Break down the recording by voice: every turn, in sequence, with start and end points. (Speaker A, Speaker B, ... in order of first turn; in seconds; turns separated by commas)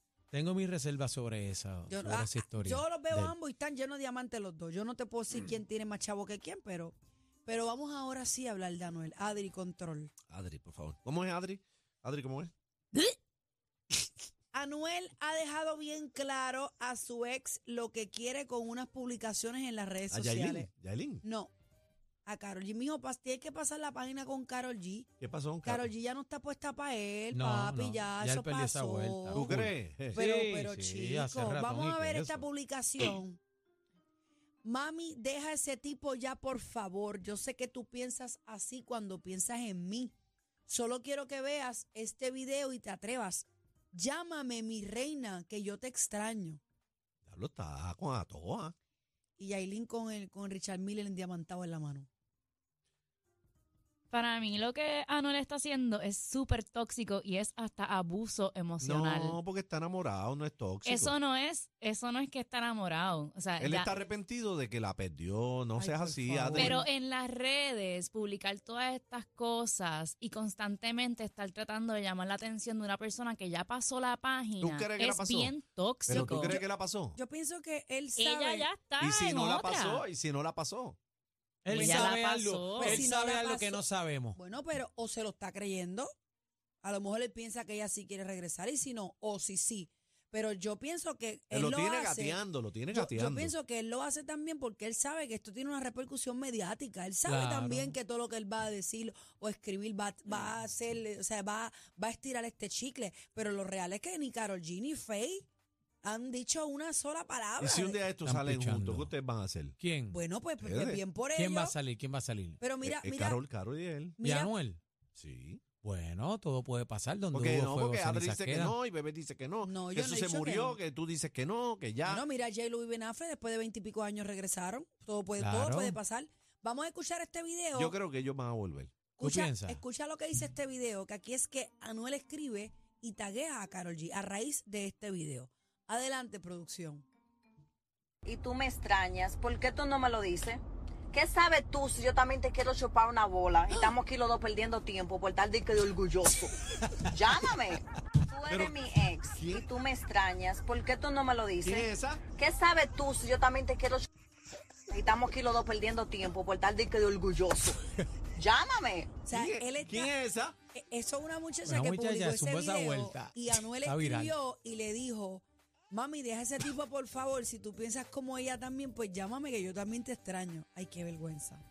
Speaker A: 0.3-3.3, Speaker B: 1.9-6.9, Speaker B: 7.5-10.1, Speaker C: 10.3-12.5, Speaker B: 14.5-20.7, Speaker C: 20.1-21.2, Speaker B: 21.2-21.5, Speaker B: 22.2-25.1, Speaker C: 25.2-25.9, Speaker B: 25.6-33.4, Speaker A: 27.3-32.2, Speaker C: 29.3-30.2, Speaker C: 32.0-32.4, Speaker B: 34.6-40.1, Speaker B: 40.7-46.6, Speaker C: 47.3-48.7, Speaker B: 49.4-52.1, Speaker D: 54.1-59.4, Speaker C: 58.8-61.1, Speaker D: 60.8-63.9, Speaker C: 63.6-66.8, Speaker B: 65.8-66.9, Speaker D: 66.5-76.6, Speaker C: 74.6-75.5, Speaker C: 76.1-77.2, Speaker B: 76.1-78.7, Speaker D: 78.2-80.0, Speaker C: 79.0-81.0, Speaker A: 81.6-84.4, Speaker B: 81.7-82.1, Speaker D: 81.7-83.1, Speaker B: 82.7-83.8, Speaker B: 84.3-86.1, Speaker B: 86.8-105.5, Speaker C: 91.5-93.5, Speaker A: 97.3-97.9, Speaker B: 106.0-108.0, Speaker C: 107.6-109.8, Speaker A: 108.2-109.1, Speaker A: 109.8-110.2, Speaker B: 110.1-111.8, Speaker C: 110.6-111.0, Speaker A: 111.3-112.6, Speaker B: 112.6-113.4, Speaker C: 112.8-114.2, Speaker B: 114.2-114.5, Speaker A: 114.2-114.8, Speaker C: 115.2-115.6, Speaker A: 115.8-118.8, Speaker C: 117.3-122.2, Speaker B: 119.6-120.8, Speaker B: 122.0-128.0, Speaker A: 125.4-126.0, Speaker C: 127.7-128.9, Speaker B: 129.2-137.0, Speaker A: 129.2-129.8, Speaker E: 138.2-140.6, Speaker E: 141.1-146.5, Speaker E: 147.0-154.1, Speaker C: 148.5-149.7, Speaker C: 151.6-152.2, Speaker E: 154.9-157.8, Speaker E: 158.3-159.1, Speaker B: 159.2-160.1, Speaker C: 159.3-160.6, Speaker B: 160.7-171.6, Speaker A: 161.7-164.3